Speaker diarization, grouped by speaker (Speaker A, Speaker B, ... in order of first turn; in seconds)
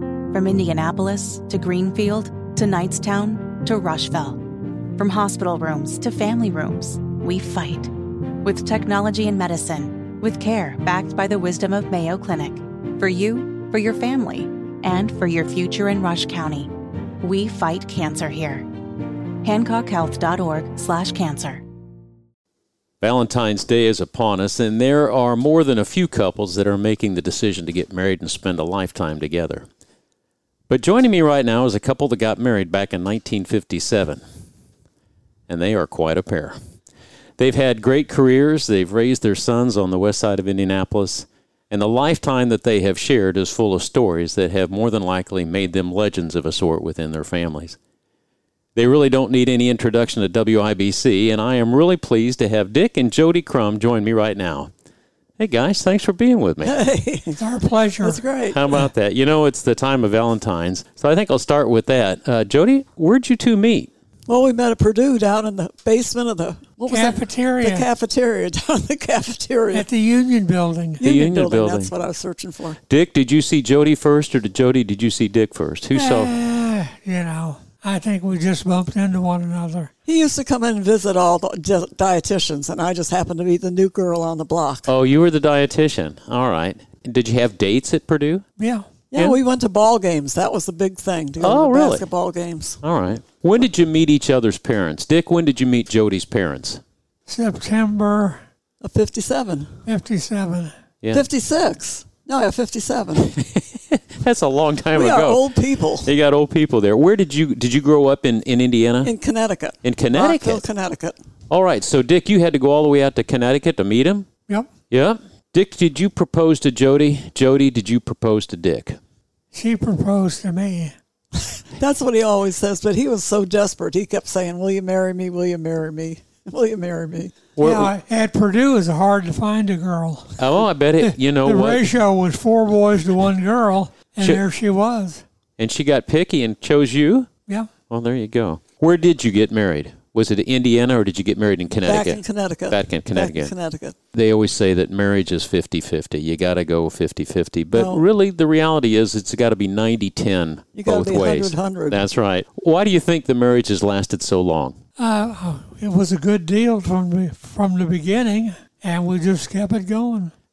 Speaker A: 0.3-4.4, 5.0-7.9, 8.4-18.7, 19.4-21.6
Speaker B: 23.0-29.6, 30.7-34.2, 35.5-36.6, 37.4-47.8, 48.8-54.7, 55.4-56.8, 58.5-63.9, 71.0-71.9, 72.9-76.3, 84.9-88.4, 91.4-92.1, 92.8-96.8, 103.2-105.4, 106.0-109.1, 109.8-110.6, 111.5-114.3, 114.9-119.0, 127.5-127.9, 130.4-131.9, 135.6-137.3, 137.9-143.5, 144.1-154.8
Speaker C: 56.6-57.4, 58.0-58.6, 64.3-69.9, 71.0-72.8, 80.0-84.9, 89.1-92.8, 98.8-99.8, 101.1-103.3, 104.9-106.1, 109.0-111.2, 121.8-127.5, 141.8-143.9, 147.7-148.0, 150.8-152.0
Speaker D: 57.4-58.2, 66.9-67.9, 69.7-71.0, 75.9-79.9, 88.6-88.8, 97.3-98.4, 99.8-100.7, 119.5-120.9, 127.6-135.2, 155.0-160.3